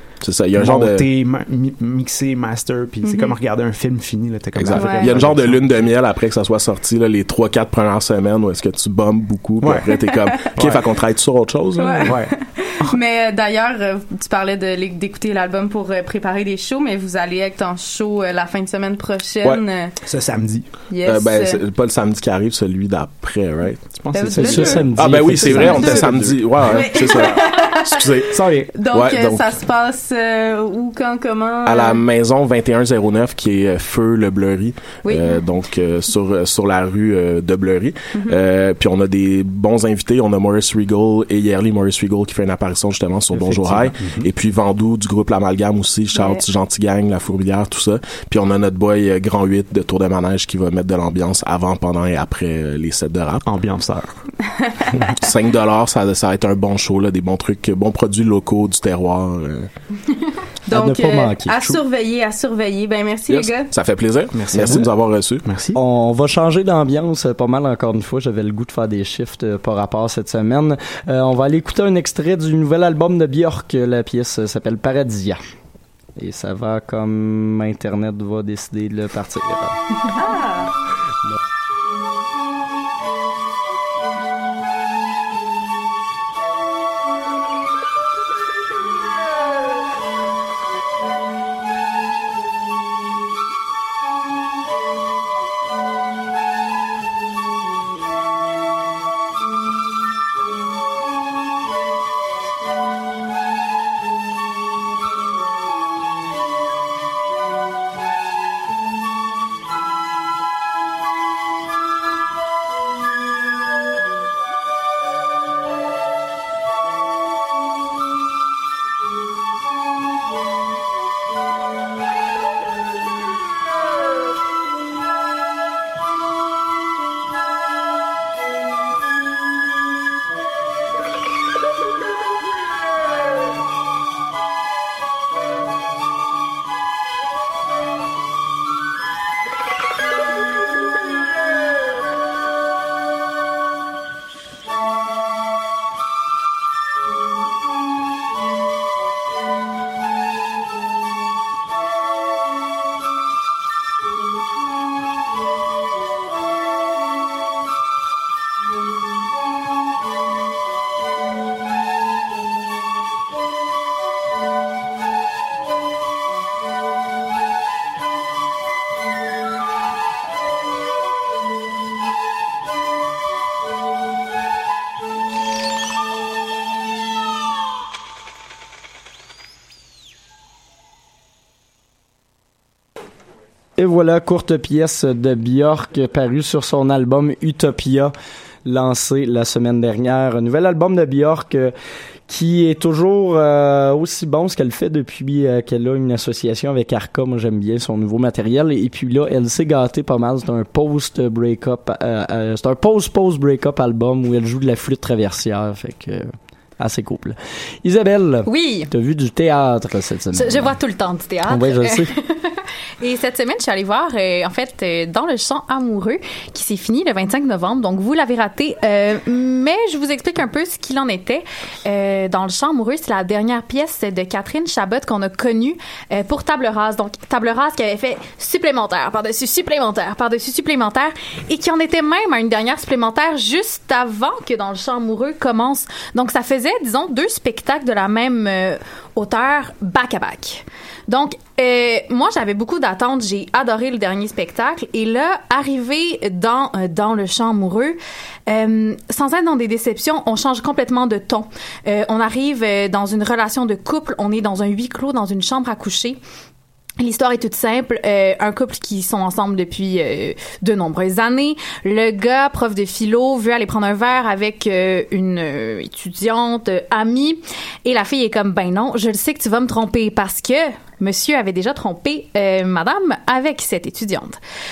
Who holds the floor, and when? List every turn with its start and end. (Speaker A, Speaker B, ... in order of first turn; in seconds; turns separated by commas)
Speaker A: 0.2-1.1, Speaker B: 0.5-6.0, Speaker C: 3.0-3.3, Speaker A: 4.6-12.1, Speaker C: 4.7-5.2, Speaker B: 9.6-9.9, Speaker B: 10.6-10.9, Speaker C: 11.8-19.9, Speaker B: 12.0-13.0, Speaker B: 20.0-20.9, Speaker C: 20.9-21.6, Speaker A: 21.1-24.0, Speaker B: 23.9-27.5, Speaker C: 24.1-25.0, Speaker D: 24.4-26.4, Speaker A: 24.9-27.4, Speaker C: 25.6-28.0, Speaker A: 27.9-28.3, Speaker B: 28.3-28.7, Speaker C: 28.7-32.0, Speaker A: 28.9-29.5, Speaker A: 31.7-53.4, Speaker C: 35.0-35.4, Speaker B: 43.3-44.3, Speaker C: 46.1-46.4, Speaker B: 53.4-54.1, Speaker A: 55.2-59.7, Speaker C: 60.7-63.7, Speaker D: 60.7-61.7, Speaker A: 63.3-65.5, Speaker B: 64.3-65.8, Speaker D: 65.8-75.4, Speaker D: 76.2-79.8, Speaker C: 80.2-80.7, Speaker D: 183.8-188.1, Speaker D: 188.7-191.7, Speaker D: 192.3-206.3, Speaker D: 206.8-210.8, Speaker E: 208.5-208.9, Speaker E: 210.3-248.0, Speaker D: 211.5-212.1, Speaker E: 248.5-256.2, Speaker E: 257.0-274.4